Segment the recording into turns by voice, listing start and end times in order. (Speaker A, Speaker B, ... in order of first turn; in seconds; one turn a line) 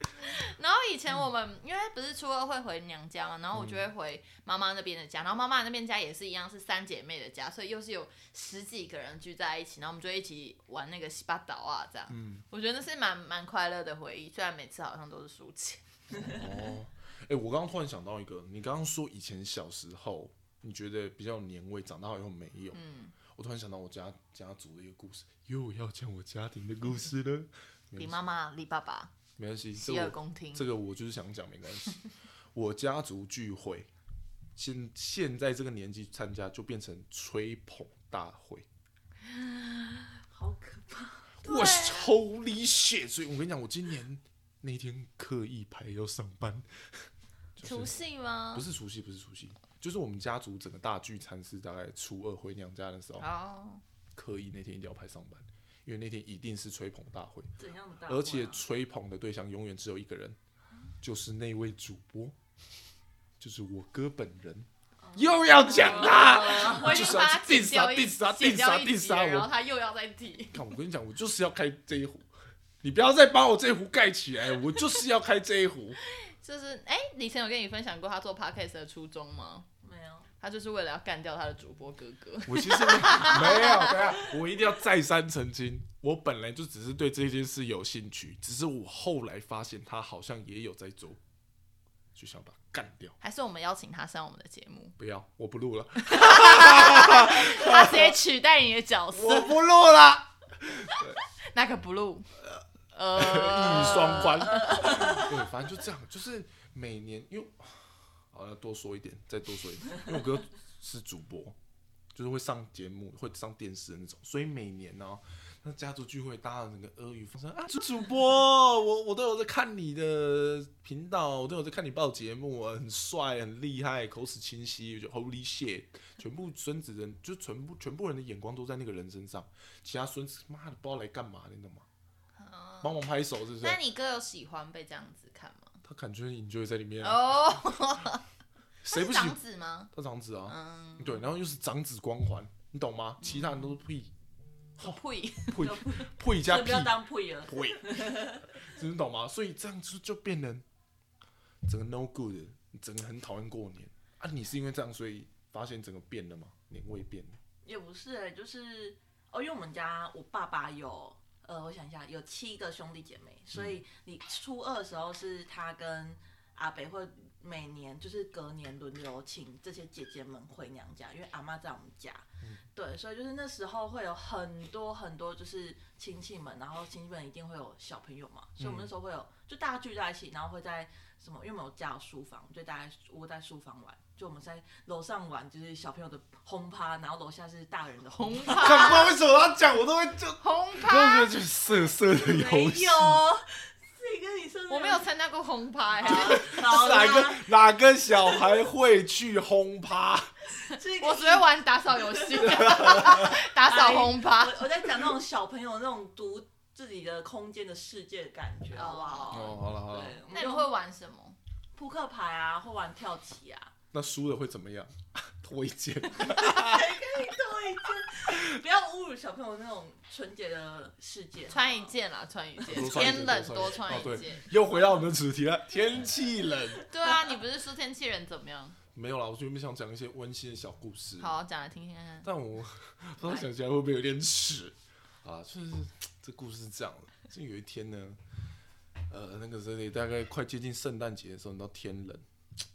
Speaker A: 0.2-16.4
Speaker B: 3.5-3.9
Speaker B: 12.1-12.4
Speaker B: 16.1-28.2
Speaker A: 22.7-23.1
Speaker A: 28.0-29.1
Speaker B: 29.4-32.0
Speaker A: 29.7-30.7
Speaker B: 32.5-33.9
Speaker B: 34.5-38.7
Speaker A: 39.3-40.2
Speaker C: 40.3-41.3
Speaker B: 41.4-47.0
Speaker A: 41.4-42.1
Speaker B: 47.6-48.0
Speaker A: 47.6-48.6
Speaker B: 48.5-53.3
Speaker A: 53.2-53.8
Speaker B: 54.1-57.5
Speaker C: 57.6-58.6
Speaker B: 58.0-60.4
Speaker B: 61.0-62.4
Speaker B: 63.4-69.5
Speaker C: 65.0-67.2
Speaker A: 65.8-70.6
Speaker B: 70.5-72.3
Speaker B: 72.8-76.0
Speaker A: 76.0-79.7
Speaker C: 79.8-80.3
Speaker A: 80.4-84.0
Speaker B: 82.5-91.2
Speaker B: 92.1-93.2
Speaker A: 93.2-95.0
Speaker B: 95.0-98.2
Speaker A: 96.0-99.6
Speaker B: 99.1-101.2
Speaker A: 101.4-102.3
Speaker A: 102.9-105.3
Speaker B: 103.1-111.5
Speaker B: 112.1-131.8
Speaker A: 132.3-133.0
Speaker B: 132.8-133.8
Speaker A: 133.6-135.8
Speaker B: 135.8-137.3
Speaker A: 137.0-138.2
Speaker B: 138.8-139.4
Speaker A: 138.9-139.9
Speaker B: 139.9-144.1
Speaker A: 140.5-141.2
Speaker A: 143.2-143.8
Speaker A: 144.8-145.7
Speaker B: 144.8-150.6
Speaker C: 145.6-148.5
Speaker B: 151.6-157.4
Speaker C: 157.6-189.1
Speaker B: 163.5-163.8
Speaker B: 178.6-178.9
Speaker A: 188.1-189.1
Speaker B: 188.5-193.2
Speaker A: 190.4-191.4
Speaker C: 192.0-195.1
Speaker A: 194.7-196.7
Speaker C: 195.9-197.5
Speaker B: 196.0-200.3
Speaker C: 200.7-210.7
Speaker A: 201.0-204.7
Speaker B: 202.4-203.3
Speaker A: 208.7-209.6
Speaker B: 209.3-210.2
Speaker A: 210.3-211.4
Speaker C: 211.7-213.7
Speaker B: 213.9-217.0
Speaker C: 216.2-221.9
Speaker A: 221.5-224.4
Speaker C: 222.6-223.2
Speaker B: 222.7-226.8
Speaker A: 226.9-228.8
Speaker C: 227.0-227.3
Speaker B: 228.9-231.3
Speaker A: 231.2-232.3
Speaker B: 232.2-238.2
Speaker B: 239.1-242.2